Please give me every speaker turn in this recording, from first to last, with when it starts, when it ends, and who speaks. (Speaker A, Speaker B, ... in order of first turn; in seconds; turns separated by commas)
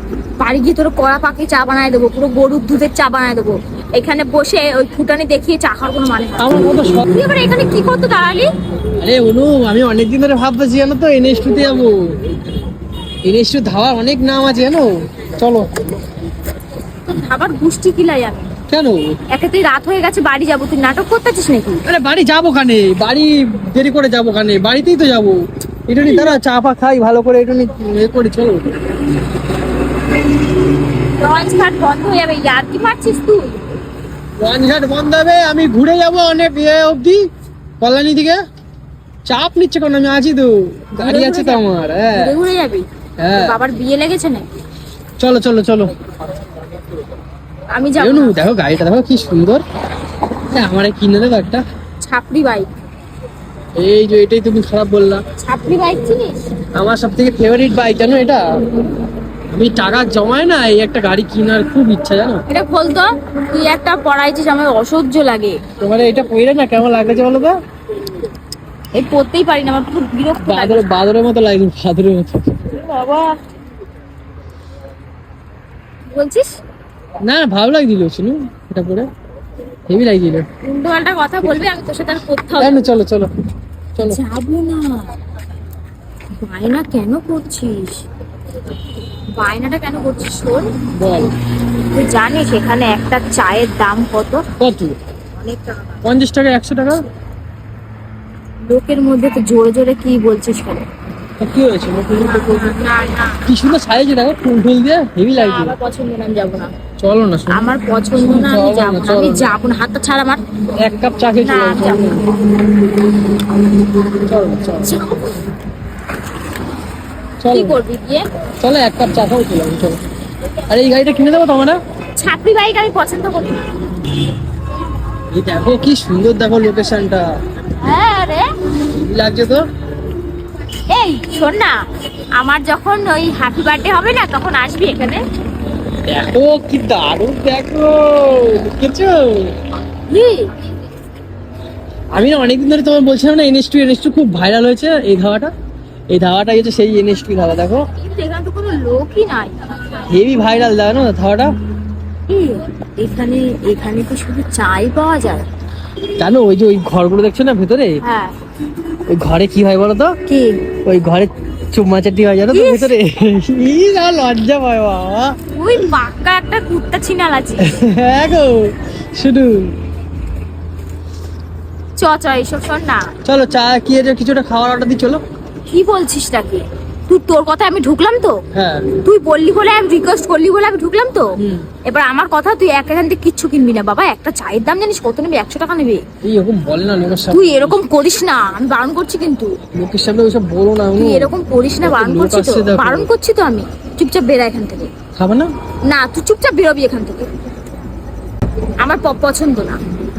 Speaker A: 0.4-8.5, Speaker B: 6.4-7.1, Speaker B: 9.0-12.1, Speaker B: 13.2-15.7, Speaker A: 17.1-18.5, Speaker B: 18.7-19.1, Speaker A: 19.3-21.8, Speaker B: 21.9-25.4, Speaker B: 25.9-28.8, Speaker A: 26.0-26.3, Speaker A: 31.2-33.6, Speaker B: 34.4-37.2, Speaker B: 37.8-38.4, Speaker B: 39.3-42.3, Speaker A: 41.0-41.6, Speaker A: 42.1-44.5, Speaker B: 43.2-43.6, Speaker B: 45.2-46.0, Speaker A: 47.7-48.4, Speaker B: 48.0-49.6, Speaker B: 50.5-51.6, Speaker A: 52.0-52.7, Speaker B: 53.8-55.2, Speaker A: 55.4-56.4, Speaker B: 56.8-58.4, Speaker B: 59.5-62.4, Speaker A: 62.5-65.6, Speaker B: 65.8-67.6, Speaker A: 68.9-70.9, Speaker B: 70.4-72.6, Speaker A: 72.7-73.4, Speaker A: 76.1-76.6, Speaker B: 77.2-79.1, Speaker B: 79.9-80.5, Speaker A: 80.6-82.9, Speaker B: 82.6-83.3, Speaker A: 84.0-85.1, Speaker A: 86.3-88.1, Speaker A: 89.3-90.8, Speaker B: 90.9-91.3, Speaker A: 91.9-94.4, Speaker B: 94.6-95.0, Speaker A: 95.4-96.0, Speaker B: 96.0-97.0, Speaker A: 98.7-100.9, Speaker B: 101.4-102.8, Speaker A: 102.2-103.4, Speaker B: 103.5-105.8, Speaker A: 105.3-106.7, Speaker B: 107.0-109.5, Speaker A: 107.5-110.4, Speaker B: 110.8-112.2, Speaker A: 111.4-112.2, Speaker B: 114.1-115.0, Speaker A: 114.8-115.4, Speaker B: 117.4-117.8, Speaker A: 117.5-118.2, Speaker B: 118.6-120.0, Speaker B: 120.7-121.8, Speaker A: 122.1-123.7, Speaker B: 125.3-127.3, Speaker A: 127.8-128.5, Speaker B: 128.8-129.7, Speaker A: 130.9-131.8, Speaker A: 132.4-135.2, Speaker B: 136.1-139.6, Speaker A: 140.1-140.5, Speaker B: 142.1-145.5, Speaker B: 146.1-147.8, Speaker A: 148.0-149.8, Speaker B: 150.1-151.5, Speaker A: 152.3-155.4, Speaker B: 156.2-158.0, Speaker A: 158.0-158.3, Speaker B: 159.1-160.2, Speaker A: 160.3-160.6, Speaker B: 160.8-165.3, Speaker A: 162.5-162.9, Speaker A: 165.5-167.8, Speaker B: 167.6-169.8, Speaker A: 172.0-173.1, Speaker B: 173.2-175.2, Speaker A: 175.7-178.4, Speaker B: 178.5-179.0, Speaker A: 179.0-181.3, Speaker B: 181.4-181.7, Speaker A: 181.8-186.0, Speaker B: 186.2-187.8, Speaker A: 187.3-189.5, Speaker B: 189.7-193.1, Speaker A: 191.0-194.9, Speaker B: 195.2-195.5, Speaker A: 195.9-197.3, Speaker A: 198.8-199.8